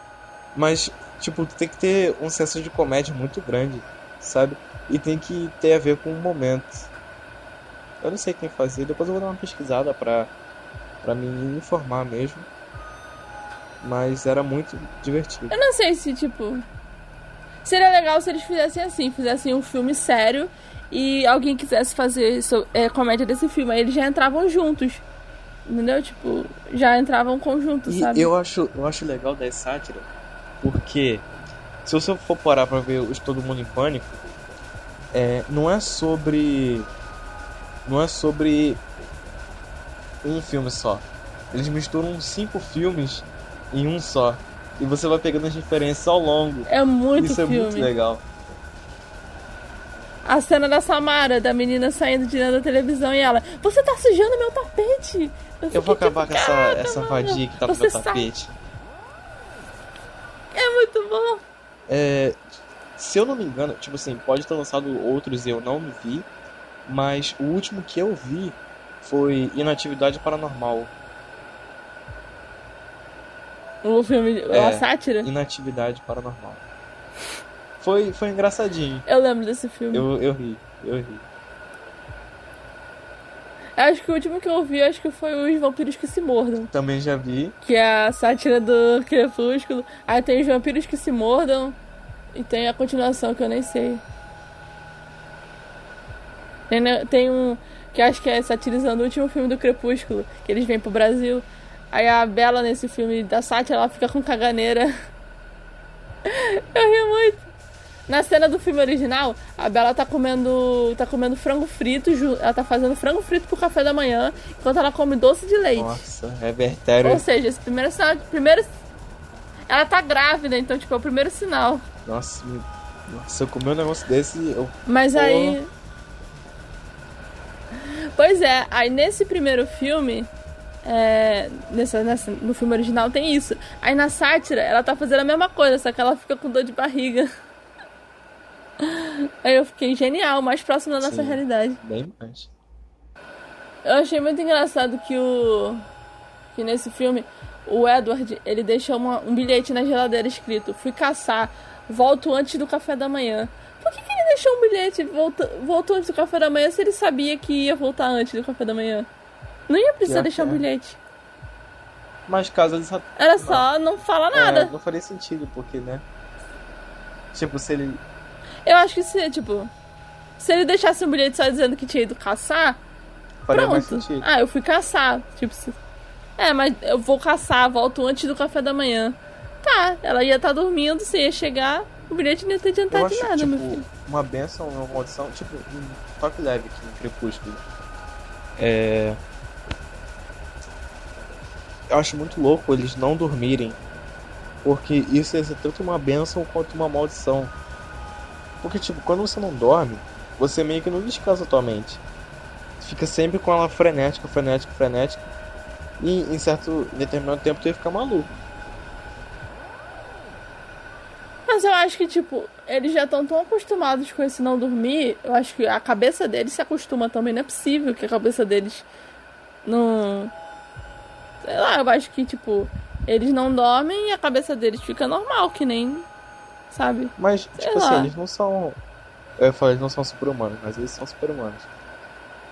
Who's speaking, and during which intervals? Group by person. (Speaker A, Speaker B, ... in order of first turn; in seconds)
Speaker A: 0.6-6.9, 8.0-10.3, 11.0-12.5, 13.8-15.6, 27.9-30.1, 30.6-31.2, 31.9-34.2, 35.1-36.9, 37.9-38.8, 40.2-48.2, 55.7-58.5, 61.9-62.4, 63.0-66.3, 66.9-70.9, 74.5-76.7, 77.8-79.0, 79.9-81.2, 86.7-87.6, 115.8-117.2, 122.0-125.6, 141.0-142.5, 160.1-160.6, 162.3-163.7, 164.3-166.1, 167.3-168.0, 173.4-174.3, 182.9-187.6, 188.6-189.2, 191.9-193.8, 194.6-197.5, 198.6-202.0, 202.8-205.3, 206.0-208.3, 227.2-228.8, 229.4-231.7
Speaker B: 15.5-16.6, 17.6-25.0, 25.7-28.3, 46.7-47.9, 50.2-58.3, 60.5-61.4, 73.8-75.3, 79.1-80.1, 83.8-86.7, 87.6-91.8, 92.3-94.0, 96.7-104.9, 106.3-107.5, 108.1-116.0, 117.0-118.7, 119.7-121.8, 124.9-125.7, 127.9-130.3, 130.8-137.3, 138.8-141.8, 143.8-145.8, 146.5-159.1, 159.7-161.0, 163.2-164.7, 168.7-169.7, 170.4-172.8, 173.5-175.8, 176.4-183.8, 211.5-218.9, 219.7-220.3, 221.4-226.1, 226.7-228.1